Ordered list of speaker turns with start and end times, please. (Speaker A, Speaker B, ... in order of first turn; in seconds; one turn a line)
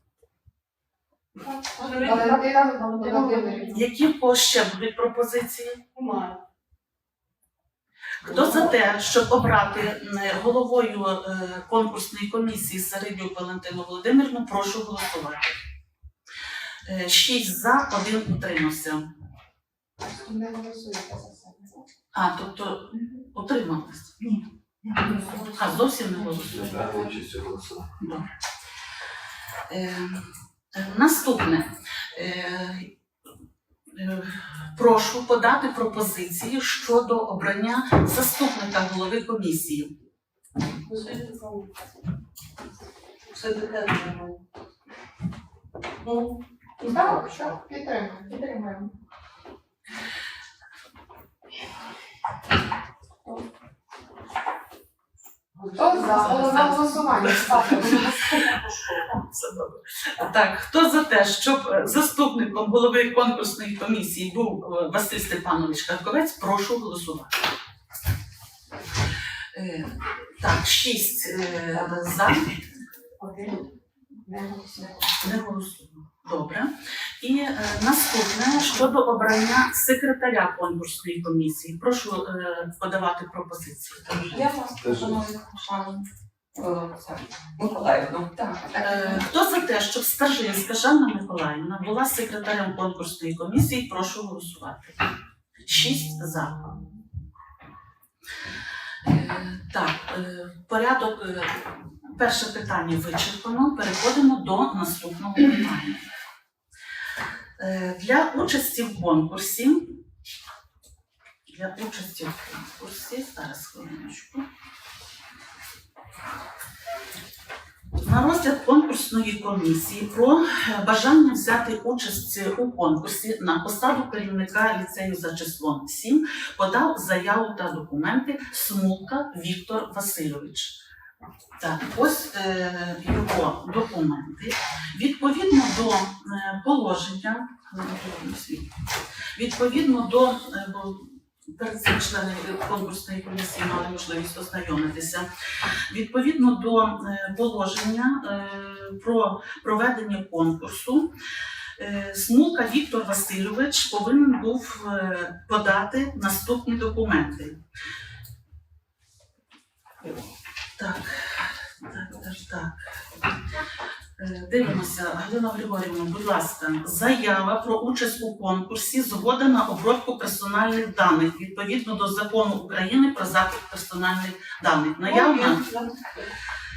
Speaker A: 1.4-3.8
Speaker B: 1.8-3.8
Speaker C: 3.7-5.8
Speaker A: 5.9-6.4
Speaker C: 8.2-15.6
Speaker A: 8.2-8.7
Speaker C: 16.9-19.0
Speaker B: 20.0-21.7
Speaker C: 22.1-24.1
Speaker B: 24.9-25.6
Speaker C: 25.3-26.8
Speaker D: 26.4-27.9
Speaker A: 26.6-27.1
Speaker C: 29.7-32.9
Speaker C: 33.9-39.9
Speaker A: 40.8-41.7
Speaker A: 43.3-44.4
Speaker A: 46.0-47.5
Speaker B: 46.8-48.9
Speaker A: 55.6-56.2
Speaker B: 55.8-58.4
Speaker C: 56.0-67.3
Speaker C: 69.5-72.6
Speaker B: 73.2-73.6
Speaker B: 74.3-74.8
Speaker C: 75.2-84.2
Speaker A: 84.1-85.9
Speaker D: 84.2-85.2
Speaker A: 86.6-88.7
Speaker C: 88.8-95.0
Speaker C: 95.6-96.7
Speaker C: 99.0-106.0
Speaker C: 107.6-110.0
Speaker C: 111.5-114.4
Speaker C: 118.0-130.8
Speaker C: 131.6-138.7
Speaker C: 139.3-145.3
Speaker C: 145.9-151.1
Speaker C: 151.8-157.6
Speaker C: 160.8-162.8
Speaker C: 164.2-175.6
Speaker A: 175.0-176.2